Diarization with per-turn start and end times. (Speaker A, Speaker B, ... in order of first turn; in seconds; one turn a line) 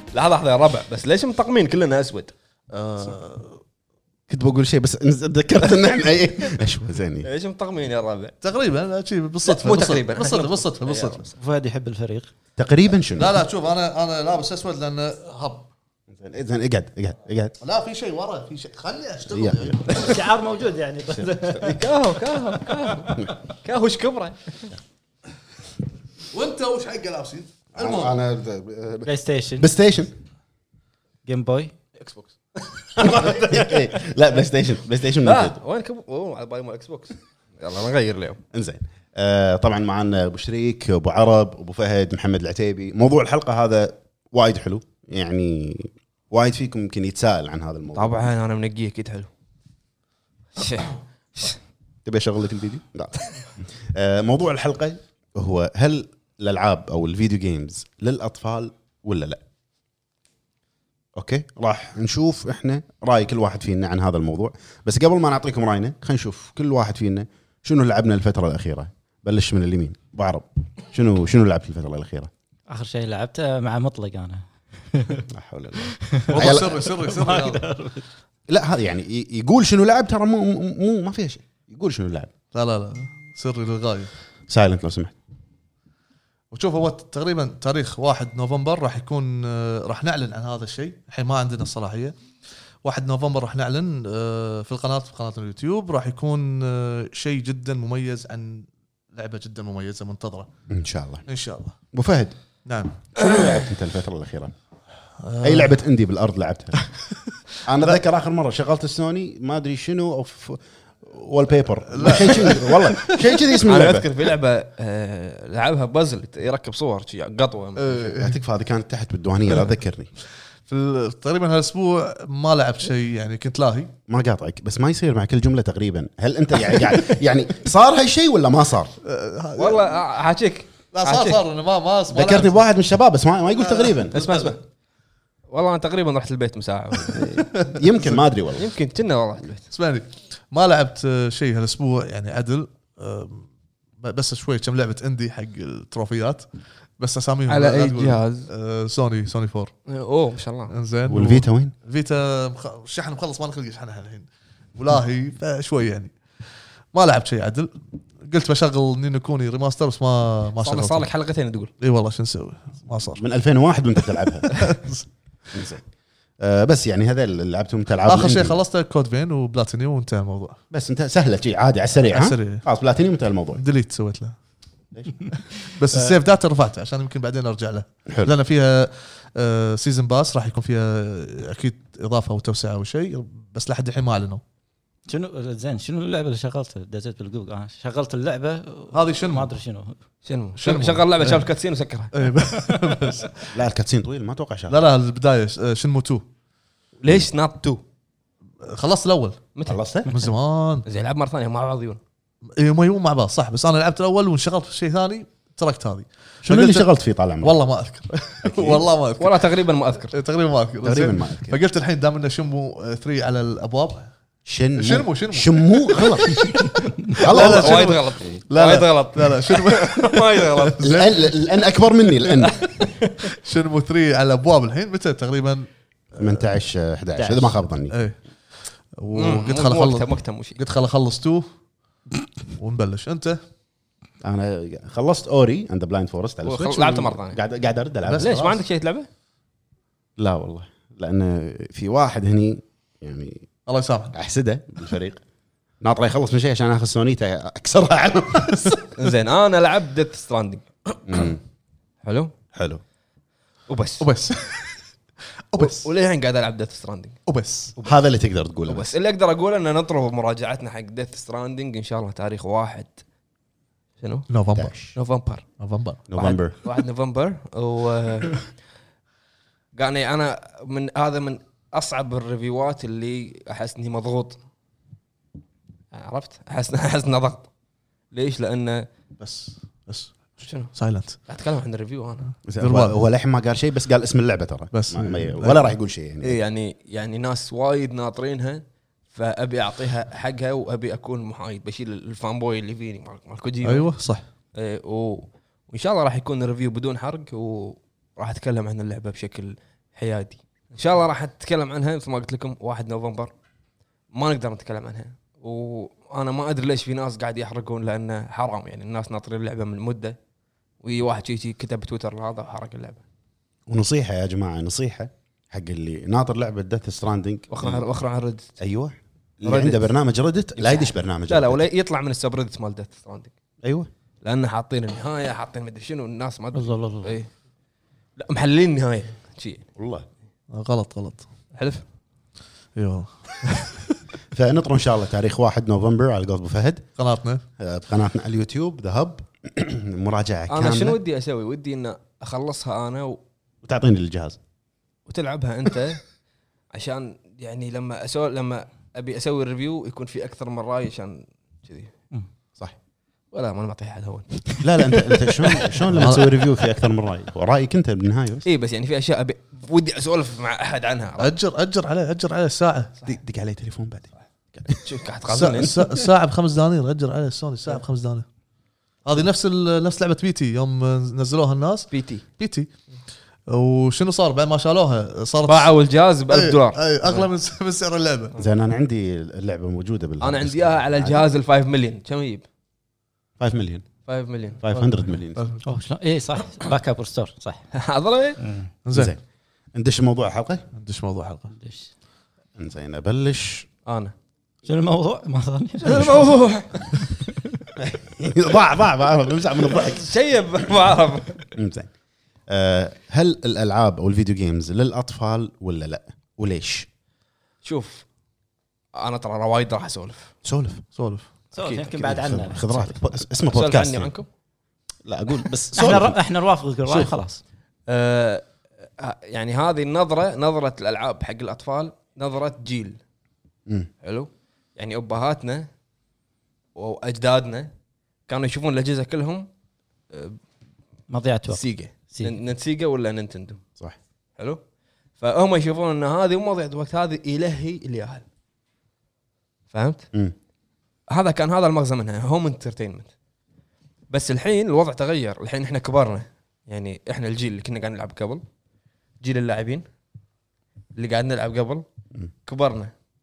Speaker A: 0.1-2.3
Speaker B: 2.7-3.6
Speaker C: 4.3-7.3
Speaker A: 7.2-8.3
Speaker B: 8.4-11.2
Speaker A: 9.4-11.3
Speaker D: 11.3-12.3
Speaker C: 12.6-13.4
Speaker B: 13.2-15.7
Speaker C: 16.1-17.5
Speaker B: 17.6-20.3
Speaker C: 19.3-20.2
Speaker D: 19.9-21.8
Speaker C: 21.1-21.8
Speaker A: 21.6-24.8
Speaker D: 22.5-23.3
Speaker B: 26.3-28.1
Speaker C: 27.7-30.1
Speaker D: 29.1-29.7
Speaker D: 31.2-31.7
Speaker A: 32.0-33.6
Speaker C: 33.0-35.6
Speaker A: 35.2-38.4
Speaker C: 38.5-48.2
Speaker A: 47.9-49.3
Speaker A: 50.5-51.6
Speaker C: 52.0-59.4
Speaker C: 61.1-72.3
Speaker D: 72.7-75.2
Speaker C: 75.3-76.8
Speaker D: 75.8-78.0
Speaker B: 76.3-77.6
Speaker C: 78.5-82.3
Speaker B: 82.5-84.1
Speaker C: 84.5-85.1
Speaker B: 86.5-92.1
Speaker B: 92.8-100.5
Speaker C: 100.7-101.2
Speaker B: 101.3-101.8
Speaker C: 101.9-102.3
Speaker B: 102.6-103.0
Speaker C: 103.2-104.5
Speaker B: 105.2-105.8
Speaker C: 105.4-106.8
Speaker C: 107.6-114.1
Speaker B: 111.9-113.5
Speaker A: 113.6-118.1
Speaker B: 117.8-118.4
Speaker C: 118.1-120.1
Speaker B: 120.7-123.9
Speaker C: 124.1-128.9
Speaker B: 129.0-130.0
Speaker A: 129.6-131.4
Speaker B: 130.9-132.6
Speaker C: 132.1-134.2
Speaker B: 133.5-134.5
Speaker A: 134.1-134.6
Speaker A: 135.5-137.5
Speaker B: 137.1-138.2
Speaker C: 137.7-138.7
Speaker A: 138.6-139.7
Speaker B: 139.7-143.5
Speaker B: 144.0-146.4
Speaker B: 147.0-149.7
Speaker A: 147.5-148.5
Speaker A: 149.9-150.7
Speaker B: 150.7-156.1
Speaker C: 151.1-151.7
Speaker B: 156.9-161.1
Speaker A: 160.6-161.7
Speaker B: 161.8-163.2
Speaker C: 163.2-164.7
Speaker B: 164.5-165.1
Speaker C: 165.5-165.8
Speaker C: 166.4-168.6
Speaker B: 168.1-170.6
Speaker C: 170.7-173.6
Speaker B: 172.1-172.6
Speaker B: 173.6-174.3
Speaker C: 174.9-175.3
Speaker B: 175.5-184.4
Speaker D: 185.1-189.9
Speaker B: 188.9-189.5
Speaker A: 190.2-192.1
Speaker B: 190.6-191.5
Speaker B: 192.1-193.6
Speaker C: 193.5-194.8
Speaker B: 194.7-196.2
Speaker A: 197.0-197.8
Speaker B: 198.6-199.4
Speaker C: 199.7-200.1
Speaker B: 200.1-200.8
Speaker A: 200.8-202.0
Speaker B: 202.6-206.9
Speaker C: 206.4-207.6
Speaker B: 207.4-209.5
Speaker C: 208.4-208.8
Speaker A: 209.2-210.1
Speaker B: 210.1-214.1
Speaker C: 210.8-211.6
Speaker C: 214.4-216.6
Speaker B: 214.8-221.3
Speaker C: 217.1-218.4
Speaker A: 217.2-220.8
Speaker C: 220.8-222.6
Speaker B: 222.2-222.4
Speaker A: 222.4-223.3
Speaker B: 223.3-226.4
Speaker C: 226.2-227.9
Speaker D: 227.1-227.6
Speaker B: 227.9-228.2
Speaker B: 229.0-231.5
Speaker A: 229.1-230.6
Speaker B: 232.5-233.4
Speaker C: 234.2-238.4
Speaker A: 236.4-237.4
Speaker B: 238.1-238.6
Speaker A: 238.2-239.1
Speaker C: 240.2-243.5
Speaker B: 243.7-244.1
Speaker C: 244.1-245.2
Speaker C: 245.8-248.8
Speaker A: 248.9-250.7
Speaker C: 251.1-251.4
Speaker A: 252.0-252.3
Speaker C: 252.5-252.8
Speaker A: 253.7-254.1
Speaker B: 254.0-254.8
Speaker B: 255.5-255.9
Speaker A: 255.6-257.2
Speaker B: 257.3-257.7
Speaker C: 257.8-258.9
Speaker A: 258.7-263.0
Speaker A: 264.0-264.3
Speaker B: 264.3-264.7
Speaker C: 264.5-264.9
Speaker A: 264.9-265.4
Speaker B: 265.6-266.1
Speaker C: 266.1-266.6
Speaker A: 266.1-268.5
Speaker A: 269.7-274.4
Speaker A: 275.9-277.5
Speaker A: 278.1-278.9
Speaker B: 279.2-280.2
Speaker A: 280.4-280.7
Speaker B: 280.7-281.2
Speaker A: 281.2-282.3
Speaker C: 282.5-286.4
Speaker B: 282.6-282.9
Speaker B: 284.7-285.7
Speaker A: 286.2-293.9
Speaker B: 293.6-294.2
Speaker A: 294.5-303.3
Speaker A: 304.1-310.1
Speaker A: 310.8-313.0
Speaker C: 313.7-317.8
Speaker A: 317.5-318.5
Speaker C: 318.6-321.7
Speaker A: 319.4-319.9
Speaker A: 320.6-323.3
Speaker C: 323.6-323.9
Speaker A: 324.2-327.3
Speaker D: 326.5-327.1
Speaker A: 328.2-329.6
Speaker C: 329.8-330.0
Speaker B: 330.5-331.2
Speaker A: 331.5-331.8
Speaker B: 332.8-334.0
Speaker C: 334.3-336.8
Speaker B: 337.0-337.4
Speaker C: 337.6-341.0
Speaker A: 340.5-343.2
Speaker C: 343.6-344.4
Speaker A: 345.1-346.0
Speaker A: 346.7-351.9
Speaker A: 353.3-354.3
Speaker C: 354.6-358.4
Speaker B: 355.9-356.4
Speaker A: 358.4-361.3
Speaker B: 361.2-362.9
Speaker C: 363.0-364.8
Speaker A: 364.7-365.7
Speaker B: 365.3-368.2
Speaker C: 365.6-366.0
Speaker B: 369.0-372.7
Speaker A: 371.9-372.2
Speaker B: 373.5-375.7
Speaker A: 375.4-377.3
Speaker B: 376.3-378.3
Speaker C: 378.4-381.2
Speaker A: 380.2-382.4
Speaker C: 383.4-383.8
Speaker A: 384.1-384.6
Speaker C: 384.6-385.4
Speaker B: 384.7-385.6
Speaker D: 385.6-387.6
Speaker A: 387.7-388.4
Speaker D: 388.4-388.7
Speaker B: 388.9-389.1
Speaker C: 388.9-389.2
Speaker C: 389.7-390.7
Speaker B: 390.7-391.5
Speaker D: 391.5-391.9
Speaker C: 392.6-393.7
Speaker A: 393.9-394.1
Speaker D: 394.6-396.4
Speaker A: 395.8-397.0
Speaker D: 396.9-397.5
Speaker C: 397.8-400.1
Speaker A: 399.7-401.5
Speaker C: 401.5-401.9
Speaker C: 402.5-406.9
Speaker A: 407.6-408.0
Speaker A: 408.9-410.3
Speaker C: 410.4-410.8
Speaker B: 410.9-411.2
Speaker A: 411.6-412.1
Speaker D: 411.6-413.0
Speaker C: 412.0-414.1
Speaker A: 413.4-414.3
Speaker C: 415.0-416.2
Speaker D: 415.7-417.4
Speaker A: 417.9-418.4
Speaker A: 419.0-423.0
Speaker A: 424.0-425.7
Speaker A: 426.7-427.7
Speaker A: 428.3-429.5
Speaker A: 430.1-430.4
Speaker D: 431.1-432.3
Speaker A: 431.5-433.6
Speaker A: 435.2-438.2
Speaker A: 439.7-440.1
Speaker A: 441.1-443.1
Speaker A: 444.1-448.4
Speaker A: 449.2-449.8
Speaker A: 450.9-451.8
Speaker A: 452.4-452.9